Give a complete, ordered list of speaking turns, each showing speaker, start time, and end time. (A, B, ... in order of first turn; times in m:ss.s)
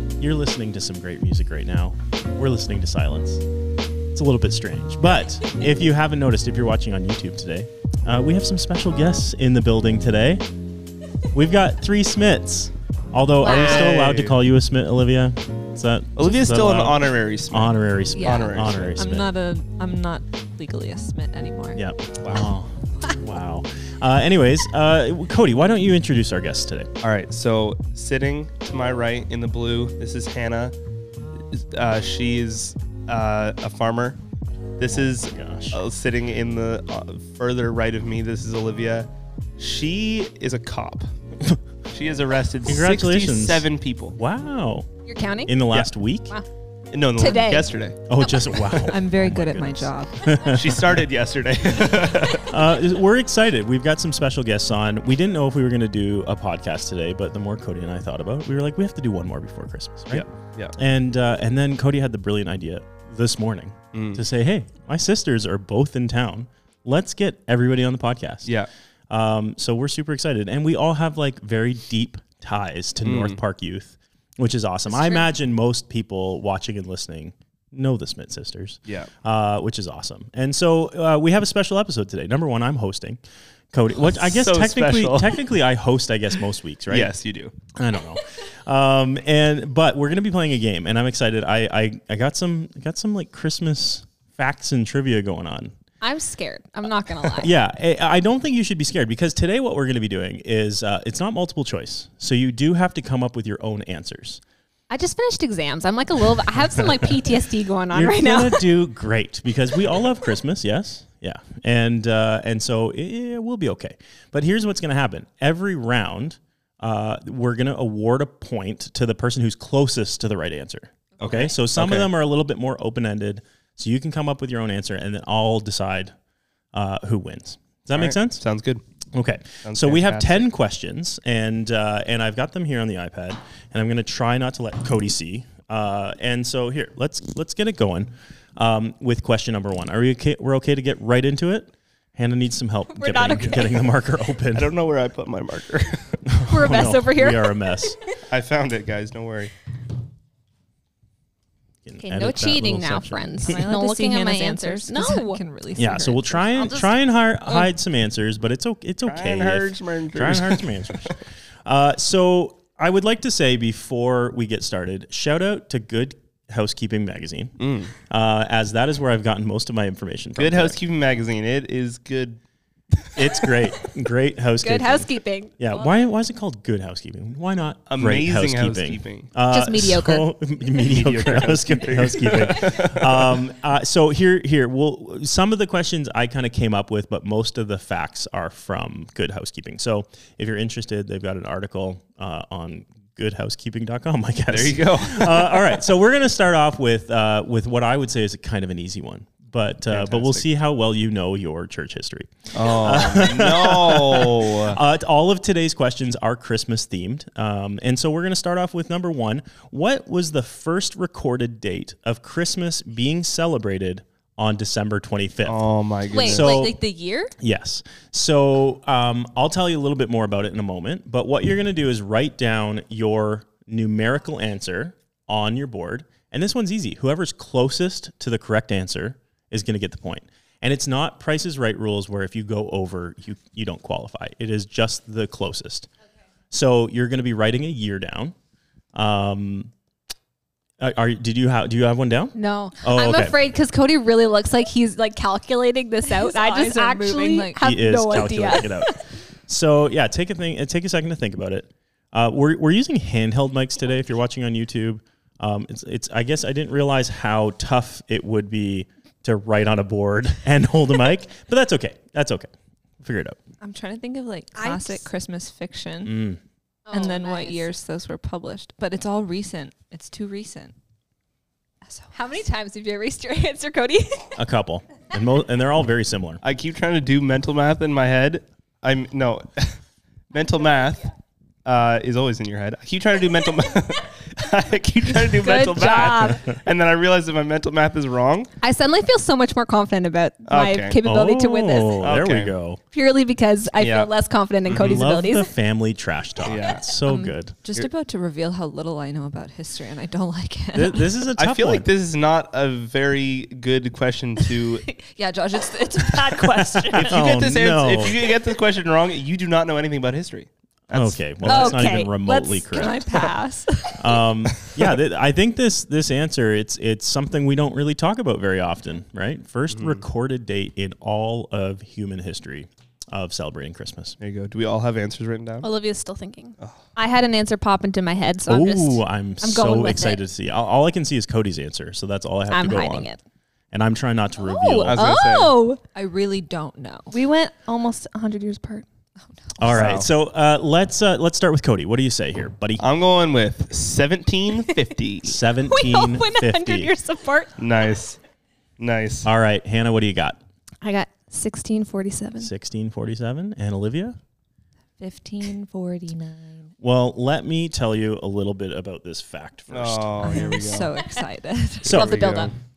0:00.2-0:03.4 A
0:04.1-0:10.4 A
0:11.3-0:19.3 A
0:13.4-0:13.9 B
0:13.4-0:14.4 C
0:16.2-0:19.0 C
0:18.2-0:21.8 D
0:21.8-0:26.9 A
0:22.2-0:22.5 C
0:27.0-0:30.8 C
0:31.5-0:34.2 C
0:34.8-0:41.1 C
0:34.9-0:35.8 A
0:41.9-0:44.2 C
0:42.6-0:44.9 A
0:45.0-0:45.6 B
0:45.4-0:46.3 A
0:46.9-0:48.0 C
0:47.2-0:47.7 B
0:48.1-0:51.0 A
0:48.7-0:50.3 D
0:50.5-0:52.5 C
0:52.4-1:08.5 A
1:00.1-1:00.7 C
1:03.9-1:04.2 C
1:09.1-1:23.2 A
1:13.0-1:13.4 C
1:14.9-1:15.3 B
1:18.8-1:19.1 C
1:23.7-1:27.1 A
1:24.0-1:25.5 C
1:26.9-1:27.5 C
1:27.7-1:35.7 A
1:36.0-1:37.5 B
1:37.2-1:44.4 A
1:44.9-1:48.6 B
1:47.9-2:06.1 A
2:01.2-2:02.1 C
2:06.7-2:08.4 A
2:07.9-2:08.8 C
2:09.1-2:24.7 A
2:09.6-2:10.4 C
2:22.9-2:23.9 B
2:24.5-2:26.2 C
2:26.2-2:28.0 A
2:26.4-2:27.7 B
2:28.3-2:29.5 C
2:31.8-2:33.6 A
2:32.0-2:35.4 B
2:33.4-2:36.7 D
2:35.8-2:47.6 A
2:36.6-2:36.9 B
2:39.0-2:40.9 C
2:47.6-2:47.9 C
2:48.1-2:50.8 A
2:50.4-2:52.4 C
2:53.0-2:53.5 C
2:53.2-2:55.1 A
2:54.6-2:55.9 B
2:55.6-3:35.6 A
2:57.9-2:59.3 C
2:59.5-3:00.3 B
3:00.8-3:03.4 C
3:14.5-3:15.6 C
3:19.9-3:20.4 C
3:22.5-3:24.8 C
3:35.4-3:36.7 C
3:36.1-3:37.3 B
3:36.2-3:36.8 A
3:37.4-3:55.9 A
3:56.5-3:58.3 A
3:58.9-3:59.7 A
4:00.8-4:03.4 A
4:02.3-4:09.0 B
4:06.1-4:07.6 D
4:07.6-4:09.0 A
4:09.5-4:23.4 A
4:23.6-4:26.2 D
4:24.5-4:25.0 B
4:26.0-4:26.4 A
4:26.8-4:27.7 B
4:26.9-4:30.7 D
4:31.8-4:32.1 D
4:32.1-4:34.3 B
4:34.4-4:36.4 A
4:36.4-4:39.8 C
4:40.3-4:41.0 C
4:41.6-4:48.5 C
4:45.2-4:46.4 B
4:45.8-4:46.3 A
4:48.6-4:52.1 B
4:50.5-4:51.0 C
4:51.0-4:52.8 A
4:52.0-4:52.5 C
4:52.9-4:55.5 B
4:53.8-4:54.1 C
4:54.7-4:55.0 C
4:54.7-4:57.5 A
4:56.4-4:56.9 C
4:57.1-5:01.2 D
5:00.7-5:01.9 A
5:01.4-5:04.8 C
5:04.8-5:07.2 D
5:06.4-5:08.2 A
5:06.9-5:11.8 C
5:10.9-5:13.2 A
5:11.4-5:13.3 B
5:12.7-5:14.2 D
5:14.0-5:24.2 A
5:14.6-5:14.8 C
5:19.7-5:20.0 C
5:24.2-5:25.7 C
5:25.6-5:30.2 B
5:28.5-5:33.1 A
5:32.5-5:33.2 B
5:33.7-5:35.1 A
5:34.4-5:35.8 B
5:34.8-5:35.6 C
5:35.9-5:37.1 D
5:37.1-5:38.8 B
5:39.5-5:39.8 D
5:39.6-5:42.8 A
5:39.7-5:40.1 C
5:42.8-5:45.4 C
5:45.2-5:46.9 A
5:45.6-5:47.6 B
5:47.6-5:48.2 C
5:48.8-5:49.3 C
5:49.2-5:50.4 A
5:50.8-5:52.5 B
5:52.4-5:54.2 A
5:55.0-5:56.7 D
5:56.8-6:00.4 A
5:59.7-6:00.9 C
6:00.2-6:02.5 D
6:01.8-6:02.4 A
6:01.9-6:02.6 C